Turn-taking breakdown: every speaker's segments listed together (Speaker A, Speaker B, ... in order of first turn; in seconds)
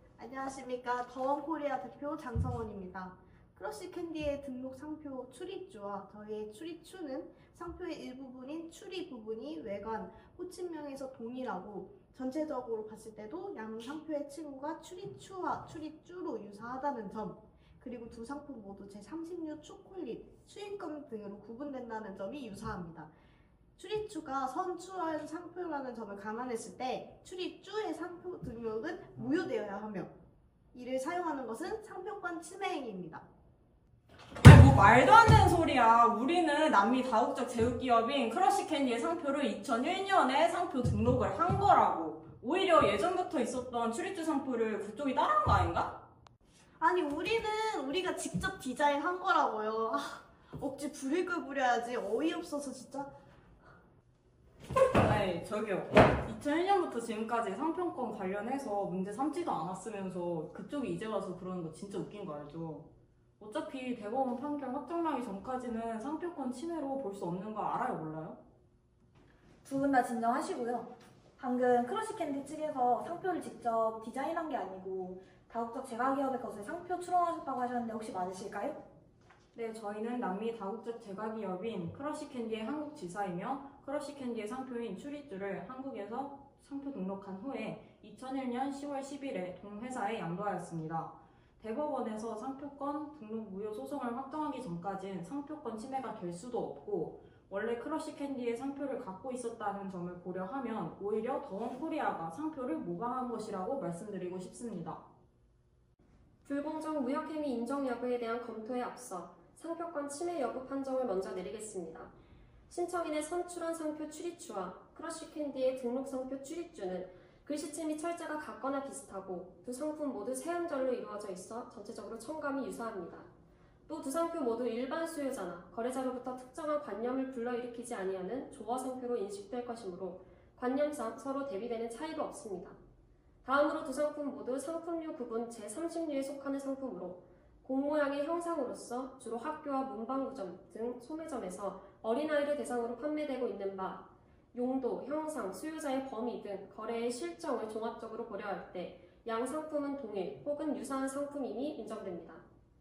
Speaker A: 0.2-23.1, 23.8-30.1, 30.7-33.2, 46.8-53.1
Speaker B: 34.4-46.0, 55.0-62.9, 63.4-68.4, 79.5-105.0
Speaker C: 69.6-78.8
Speaker D: 106.5-112.1, 112.7-123.3, 123.9-132.8, 133.4-152.4